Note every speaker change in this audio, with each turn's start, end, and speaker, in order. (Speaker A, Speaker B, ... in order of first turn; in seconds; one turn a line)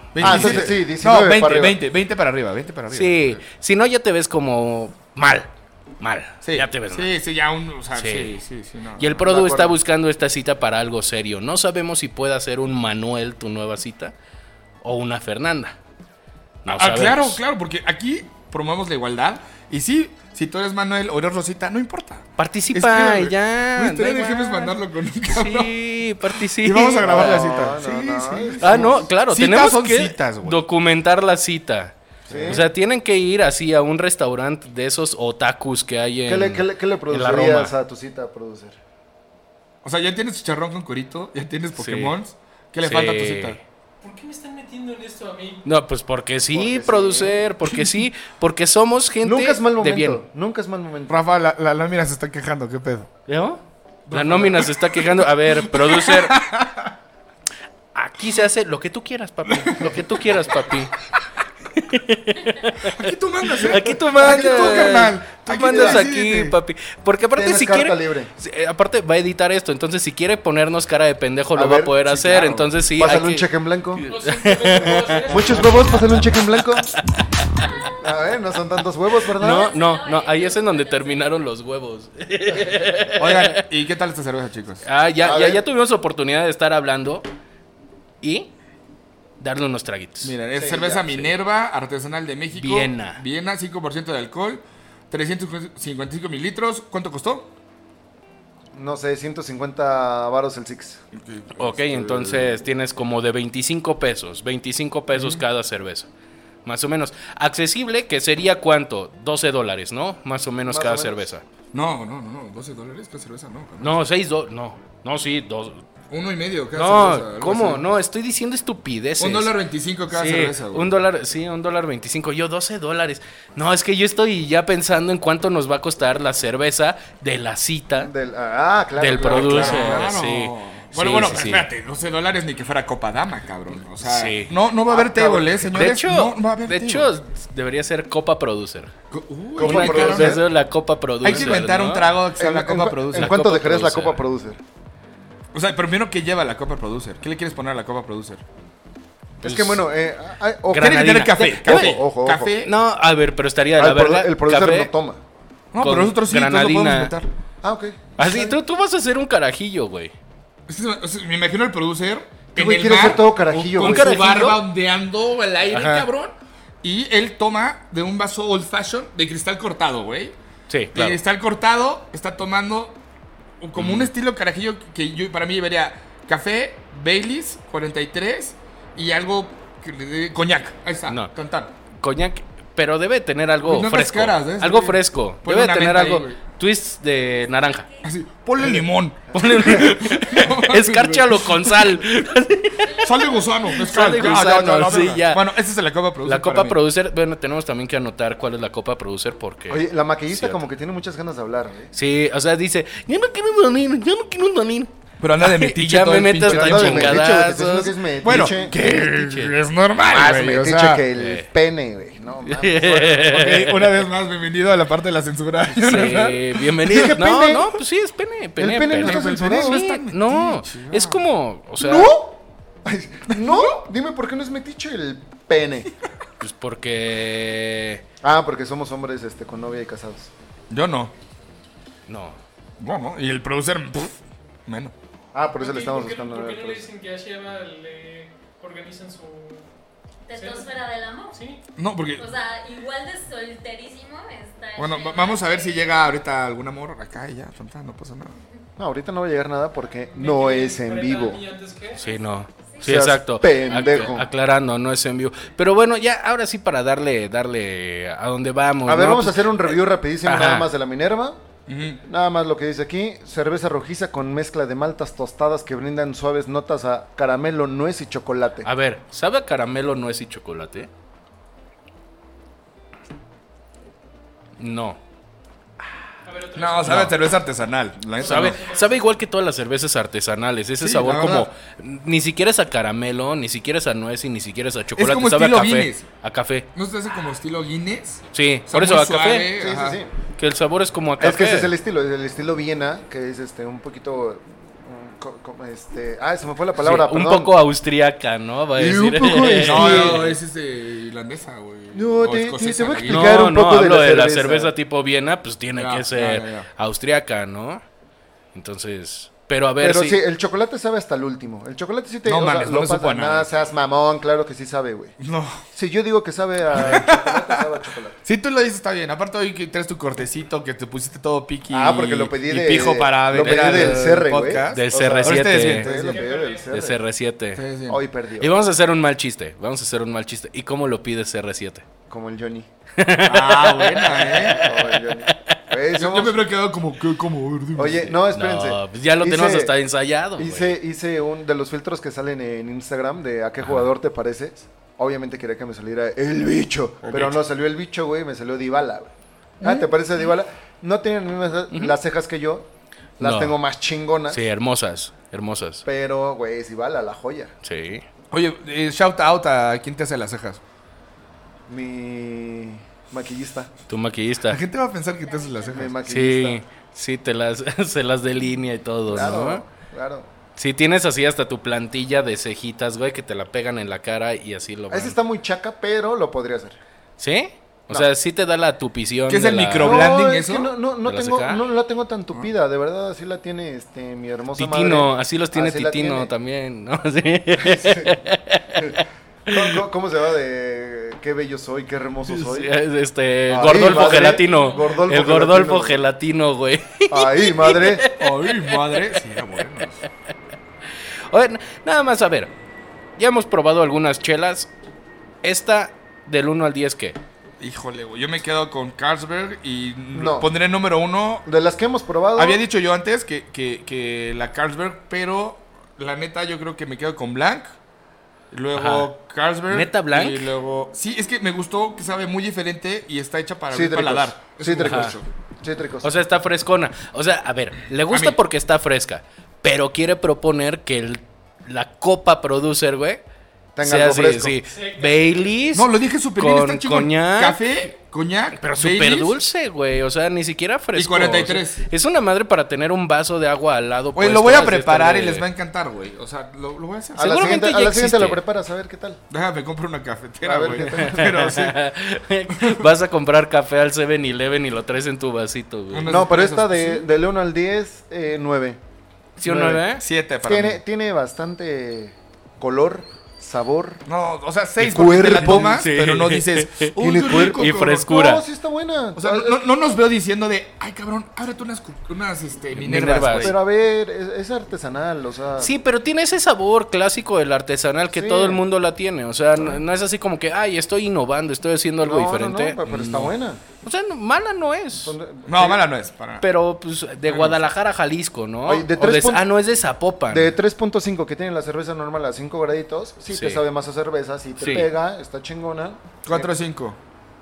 Speaker A: 0.1-3.4
Speaker B: 0.2-1.8
Speaker C: 0.3-0.6
Speaker C: 2.9-5.5
Speaker C: 6.0-7.1
Speaker A: 6.4-9.2
Speaker C: 8.0-8.3
Speaker C: 9.0-14.1
Speaker B: 9.2-9.8
Speaker C: 14.8-15.8
Speaker C: 16.6-17.4
Speaker A: 16.7-25.7
Speaker C: 22.4-24.7
Speaker C: 25.3-27.5
Speaker A: 26.3-30.6
Speaker B: 27.0-29.1
Speaker C: 28.6-31.9
Speaker A: 32.3-32.6
Speaker B: 32.3-32.6
Speaker C: 32.5-37.7
Speaker B: 36.2-38.8
Speaker A: 39.8-43.6
Speaker C: 41.8-42.1
Speaker C: 42.8-43.6
Speaker D: 44.0-45.6
Speaker C: 45.6-50.2
Speaker B: 46.5-47.9
Speaker B: 49.2-51.1
Speaker A: 51.1-53.1
Speaker C: 53.3-56.4
Speaker A: 54.1-56.9
Speaker C: 57.9-60.9
Speaker A: 59.5-60.0
Speaker C: 61.7-75.6
Speaker A: 62.8-66.5
Speaker B: 63.6-65.1
Speaker B: 65.7-66.1
Speaker B: 67.3-68.3
Speaker B: 71.5-74.0
Speaker A: 72.3-72.6
Speaker D: 74.1-76.1
Speaker B: 75.2-76.9
Speaker B: 78.0-79.7
Speaker C: 79.3-83.6
Speaker E: 79.4-81.4
Speaker A: 83.2-84.8
Speaker C: 84.8-87.2
Speaker B: 85.2-85.6
Speaker C: 88.2-88.5
Speaker C: 89.4-90.3
Speaker A: 90.2-97.5
Speaker B: 90.5-91.2
Speaker C: 92.5-93.2
Speaker B: 98.7-101.0
Speaker A: 101.1-102.5
Speaker C: 101.6-106.1
Speaker A: 105.1-105.4
Speaker C: 106.6-111.4
Speaker B: 110.7-111.3
Speaker A: 111.7-114.0
Speaker C: 113.8-115.8
Speaker A: 116.1-117.8
Speaker C: 116.7-119.5
Speaker A: 119.2-120.9
Speaker C: 120.1-128.1
Speaker B: 127.9-130.1
Speaker C: 128.9-131.7
Speaker A: 129.2-137.1
Speaker C: 134.0-134.5
Speaker B: 134.9-135.7
Speaker C: 135.7-138.9
Speaker A: 139.1-140.4
Speaker B: 139.6-140.4
Speaker C: 139.6-142.1
Speaker A: 141.2-143.4
Speaker B: 141.3-141.6
Speaker B: 142.3-144.6
Speaker C: 143.2-144.2
Speaker A: 145.5-148.4
Speaker B: 149.4-152.6
Speaker C: 149.4-149.8
Speaker C: 150.7-152.0
Speaker A: 150.7-152.7
Speaker C: 152.6-154.9
Speaker B: 153.8-155.2
Speaker A: 155.7-157.3
Speaker C: 155.8-157.1
Speaker B: 157.6-158.5
Speaker C: 158.2-160.1
Speaker A: 160.7-170.3
Speaker B: 162.5-164.1
Speaker C: 163.8-164.6
Speaker C: 165.7-166.1
Speaker C: 170.7-171.2
Speaker A: 170.9-173.0
Speaker A: 173.6-181.7
Speaker C: 173.8-174.1
Speaker C: 182.0-187.9
Speaker A: 183.6-186.4
Speaker A: 188.0-192.0
Speaker C: 189.3-195.4
Speaker B: 189.3-189.9
Speaker E: 192.8-193.7
Speaker A: 192.9-196.8
Speaker C: 196.2-200.6
Speaker B: 199.7-201.9
Speaker C: 201.9-209.5
Speaker A: 205.2-207.3
Speaker B: 206.4-208.8
Speaker A: 208.2-211.0
Speaker B: 210.0-213.3
Speaker C: 211.2-211.5
Speaker C: 212.5-213.9
Speaker A: 213.1-217.1
Speaker C: 215.8-222.2
Speaker B: 216.8-217.8
Speaker B: 218.6-219.8
Speaker A: 218.9-221.2
Speaker B: 221.8-225.9
Speaker A: 223.3-223.7
Speaker C: 226.4-228.0
Speaker B: 228.2-230.3
Speaker A: 230.7-231.1
Speaker C: 232.1-232.4
Speaker A: 232.8-234.9
Speaker B: 235.3-236.9
Speaker D: 235.6-239.7
Speaker E: 240.2-241.4
Speaker D: 240.3-240.8
Speaker D: 241.3-241.6
Speaker A: 241.8-242.2
Speaker E: 242.2-246.2
Speaker A: 244.8-248.3
Speaker B: 248.8-251.4
Speaker D: 250.1-252.1
Speaker C: 252.0-260.7
Speaker E: 252.7-254.1
Speaker B: 252.8-254.3
Speaker B: 258.8-261.4
Speaker A: 261.7-262.0
Speaker B: 262.1-268.7
Speaker C: 268.6-270.9
Speaker C: 274.6-275.0
Speaker D: 276.2-277.2
Speaker A: 276.5-278.6
Speaker C: 276.8-277.1
Speaker D: 278.2-279.0
Speaker C: 278.2-286.6
Speaker A: 280.8-281.5
Speaker A: 284.9-286.1
Speaker A: 286.7-290.0
Speaker C: 288.3-289.5
Speaker B: 289.5-290.1
Speaker C: 290.4-291.7
Speaker B: 291.2-297.5
Speaker C: 296.8-300.2
Speaker B: 298.8-300.3
Speaker A: 299.6-303.4
Speaker B: 301.9-304.7
Speaker C: 303.1-307.8
Speaker A: 305.8-306.7
Speaker C: 308.5-310.2
Speaker B: 309.8-315.1
Speaker A: 312.2-313.5
Speaker A: 315.2-315.6
Speaker B: 315.7-318.2
Speaker A: 316.7-317.6
Speaker A: 318.2-326.2
Speaker B: 321.7-327.0
Speaker C: 324.7-325.9
Speaker D: 325.9-326.8
Speaker C: 326.7-327.6
Speaker A: 327.5-328.0
Speaker B: 327.9-328.5
Speaker C: 328.4-331.8
Speaker B: 332.1-332.7
Speaker C: 333.0-335.6
Speaker A: 333.2-334.7
Speaker B: 334.5-336.4
Speaker A: 335.9-338.2
Speaker B: 337.7-339.7
Speaker C: 338.3-340.8
Speaker B: 340.4-354.4
Speaker A: 347.0-347.4
Speaker C: 349.6-349.9
Speaker C: 351.7-352.0
Speaker C: 353.2-353.6
Speaker C: 354.3-355.8
Speaker B: 355.8-357.5
Speaker C: 357.6-358.0
Speaker A: 358.3-360.6
Speaker B: 361.7-363.7
Speaker C: 363.9-364.6
Speaker A: 364.5-366.0
Speaker E: 365.3-365.7
Speaker B: 365.7-366.6
Speaker C: 366.1-369.6
Speaker B: 369.1-370.3
Speaker C: 370.6-375.1
Speaker B: 374.9-376.8
Speaker C: 377.2-380.1
Speaker A: 379.3-380.7
Speaker B: 379.8-386.3
Speaker C: 381.1-381.6
Speaker C: 384.6-389.7
Speaker B: 387.6-388.1
Speaker B: 388.8-392.7
Speaker C: 392.3-399.2
Speaker B: 393.5-396.0
Speaker D: 394.4-394.8
Speaker B: 397.1-398.0
Speaker A: 398.2-400.0
Speaker C: 401.3-402.5
Speaker C: 403.2-404.7
Speaker C: 405.4-407.2
Speaker A: 407.6-411.4
Speaker B: 410.1-410.5
Speaker B: 411.4-412.6
Speaker A: 412.4-417.7
Speaker A: 418.5-425.2
Speaker C: 418.7-419.1
Speaker C: 419.7-420.5
Speaker B: 423.7-426.1
Speaker C: 424.8-425.1
Speaker C: 426.0-433.2
Speaker A: 428.1-428.4
Speaker B: 433.8-434.6
Speaker C: 433.8-437.9
Speaker D: 434.6-435.4
Speaker A: 435.7-439.4
Speaker C: 438.6-445.4
Speaker A: 440.9-441.8
Speaker A: 444.1-447.4
Speaker B: 447.1-449.2
Speaker C: 447.2-448.4
Speaker A: 449.3-451.8
Speaker B: 450.4-451.4
Speaker C: 450.8-456.1
Speaker A: 452.6-452.9
Speaker A: 455.9-457.1
Speaker B: 456.0-458.8
Speaker C: 459.4-460.0
Speaker B: 459.4-459.8
Speaker A: 460.0-460.8
Speaker B: 460.4-464.0
Speaker A: 464.1-468.0
Speaker B: 464.8-465.9
Speaker C: 465.4-468.4
Speaker B: 467.0-469.7
Speaker A: 469.1-473.5
Speaker C: 472.8-473.5
Speaker B: 473.2-475.7
Speaker C: 475.6-485.1
Speaker B: 478.1-478.6
Speaker B: 482.0-483.6
Speaker B: 485.0-485.8
Speaker A: 485.5-486.4
Speaker C: 486.4-490.5
Speaker A: 487.3-487.6
Speaker B: 488.6-489.4
Speaker B: 490.3-496.5
Speaker C: 493.3-493.6
Speaker C: 494.6-494.9
Speaker A: 496.2-497.0